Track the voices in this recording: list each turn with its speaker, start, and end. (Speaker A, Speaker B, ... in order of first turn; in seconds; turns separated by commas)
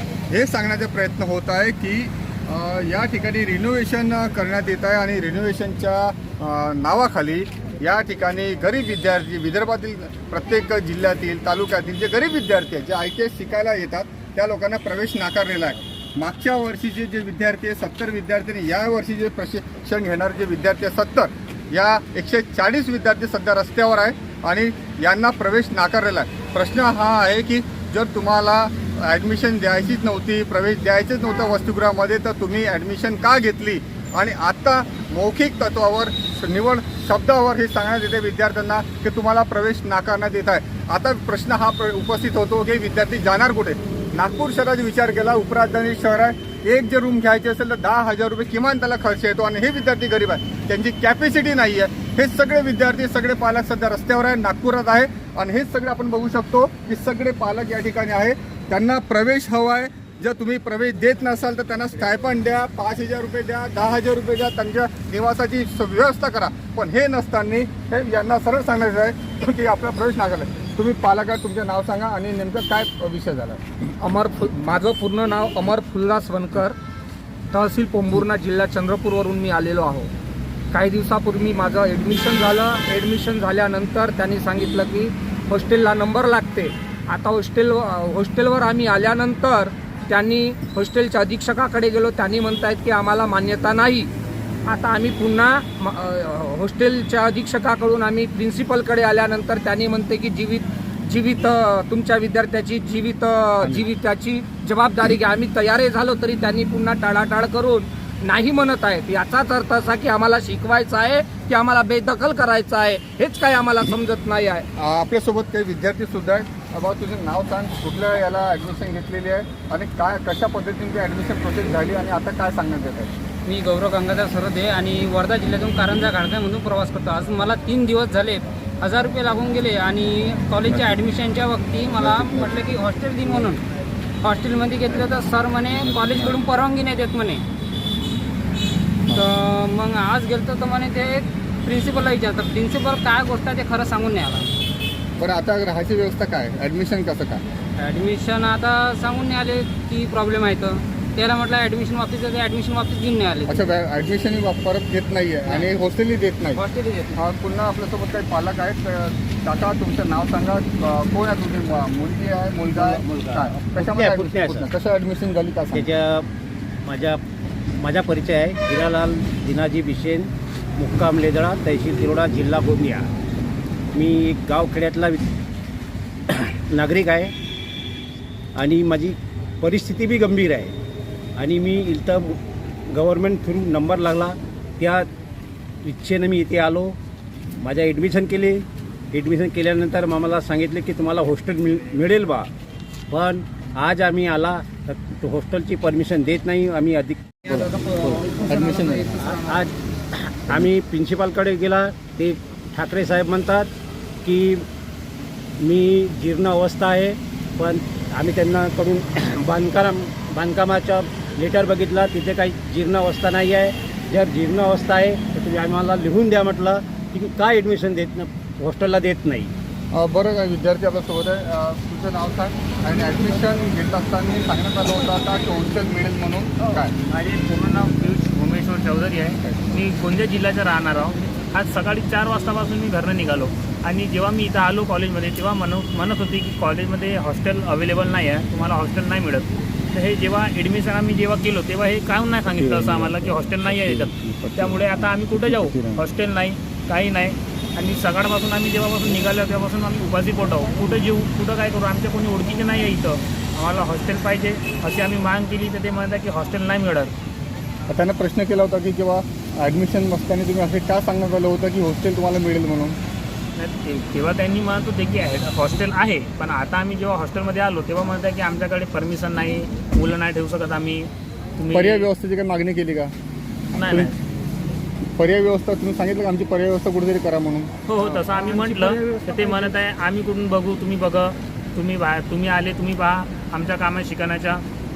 Speaker A: 0.3-73.6, Speaker B: 74.0-76.8, Speaker B: 77.5-80.1, Speaker B: 80.7-94.1, Speaker B: 94.7-114.6, Speaker A: 114.8-123.2, Speaker C: 123.4-133.6, Speaker A: 130.7-131.0, Speaker A: 132.0-132.6, Speaker A: 133.2-133.5, Speaker C: 134.2-137.4, Speaker A: 135.7-136.4, Speaker C: 139.1-144.5, Speaker A: 145.2-147.4, Speaker C: 147.8-153.6, Speaker A: 153.5-156.6, Speaker C: 156.6-157.2, Speaker A: 157.1-165.9, Speaker D: 162.8-164.7, Speaker D: 165.7-166.3, Speaker D: 166.8-167.2, Speaker D: 167.8-173.1, Speaker D: 173.9-175.2, Speaker D: 176.3-177.3, Speaker D: 178.5-180.8, Speaker D: 181.3-182.4, Speaker D: 182.9-185.1, Speaker D: 185.8-187.0, Speaker D: 187.6-192.5, Speaker D: 193.1-197.4, Speaker A: 197.5-197.7, Speaker C: 197.6-199.2, Speaker A: 198.4-199.3, Speaker D: 199.2-203.7, Speaker D: 204.2-204.7, Speaker D: 205.6-219.5, Speaker A: 219.9-226.9, Speaker E: 227.1-257.1, Speaker A: 242.4-246.0, Speaker A: 257.9-263.0, Speaker E: 263.6-272.1, Speaker A: 271.7-273.1, Speaker E: 273.7-274.2, Speaker A: 273.8-274.1, Speaker A: 275.1-277.7, Speaker E: 277.9-284.6